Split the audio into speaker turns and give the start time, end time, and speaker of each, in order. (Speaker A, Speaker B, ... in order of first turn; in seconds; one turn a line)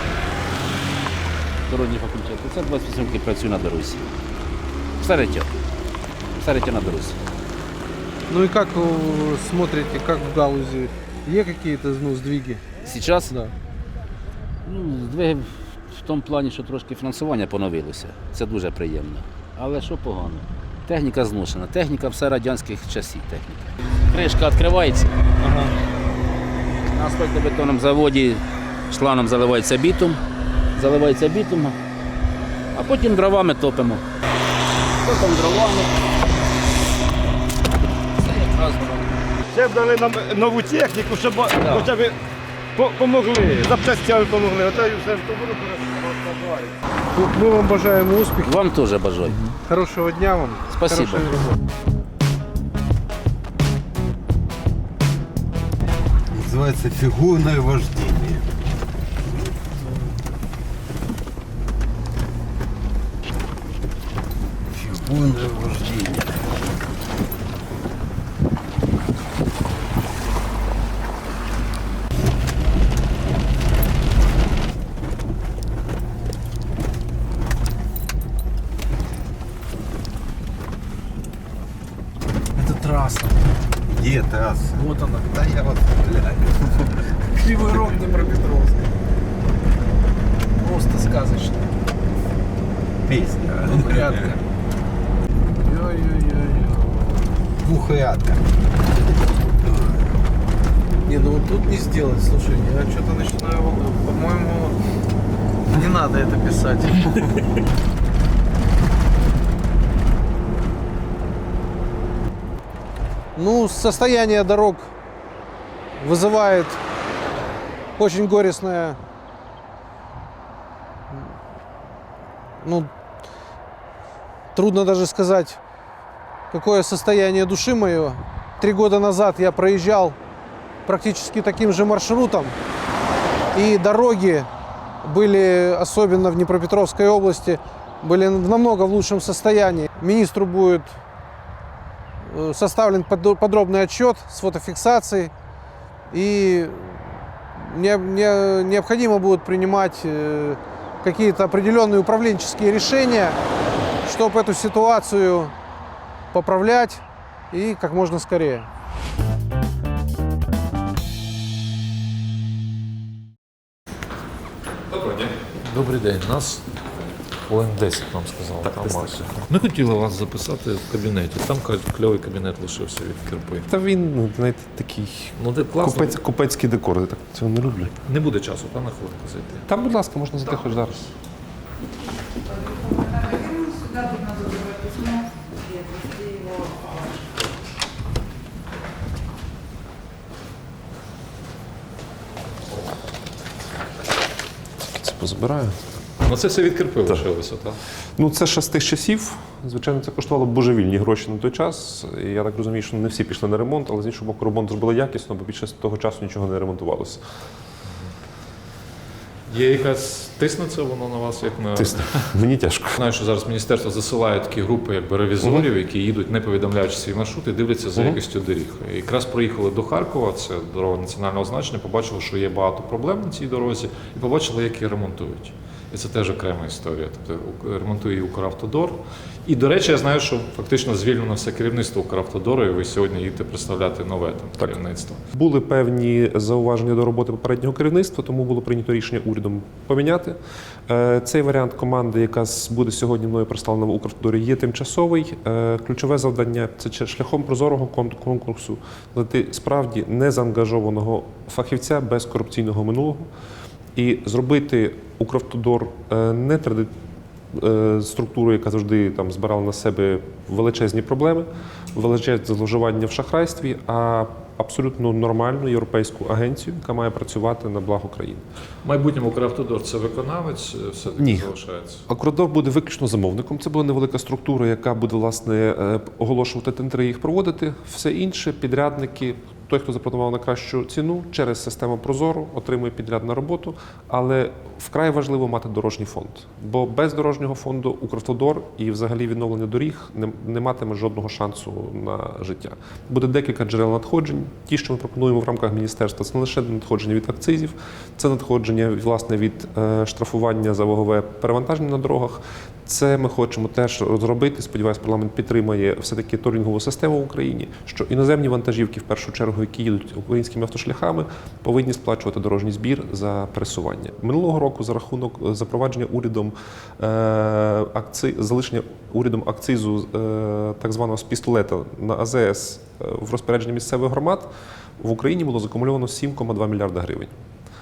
Speaker A: 1.7-4.0
Speaker A: 5.0-5.5
Speaker A: 6.4-7.2
Speaker B: 8.3-12.6
Speaker A: 12.8-13.3
Speaker B: 13.3-13.5
Speaker A: 14.6-25.7
Speaker A: 26.9-30.2
Speaker A: 30.7-31.8
Speaker A: 32.7-34.0
Speaker A: 35.0-35.9
Speaker A: 38.2-39.1
Speaker C: 39.5-42.1
Speaker A: 41.6-41.9
Speaker C: 42.8-46.7
Speaker B: 47.1-48.5
Speaker A: 48.4-49.5
Speaker B: 49.7-51.6
Speaker A: 50.7-51.3
Speaker D: 56.3-58.4
Speaker D: 64.7-66.4
Speaker B: 82.6-83.3
Speaker D: 83.9-84.8
Speaker B: 84.7-85.3
Speaker D: 85.3-86.5
Speaker B: 87.3-88.8
Speaker B: 90.6-91.6
Speaker D: 93.1-94.0
Speaker B: 93.6-94.4
Speaker B: 95.6-97.3
Speaker D: 97.6-98.4
Speaker B: 101.0-104.8
Speaker B: 105.7-107.3
Speaker B: 113.3-114.9
Speaker B: 116.0-116.8
Speaker B: 118.0-119.0
Speaker B: 122.6-122.9
Speaker B: 124.5-125.6
Speaker B: 126.5-130.2
Speaker B: 130.8-132.6
Speaker B: 133.5-134.5
Speaker B: 135.0-140.9
Speaker B: 142.2-145.3
Speaker B: 146.1-153.4
Speaker B: 154.0-155.5
Speaker B: 156.3-158.7
Speaker E: 164.9-166.8
Speaker E: 167.5-173.7
Speaker F: 168.6-169.3
Speaker F: 173.7-178.0
Speaker E: 175.4-176.1
Speaker E: 178.1-179.6
Speaker F: 179.7-181.1
Speaker F: 194.8-195.8
Speaker E: 196.2-197.8
Speaker F: 198.2-207.2
Speaker E: 209.5-212.2
Speaker F: 211.8-213.0
Speaker E: 213.0-235.2
Speaker F: 215.4-215.7
Speaker F: 235.3-253.3
Speaker F: 253.9-256.9
Speaker F: 257.5-268.4
Speaker E: 268.8-272.0
Speaker F: 271.1-271.5
Speaker F: 272.1-327.3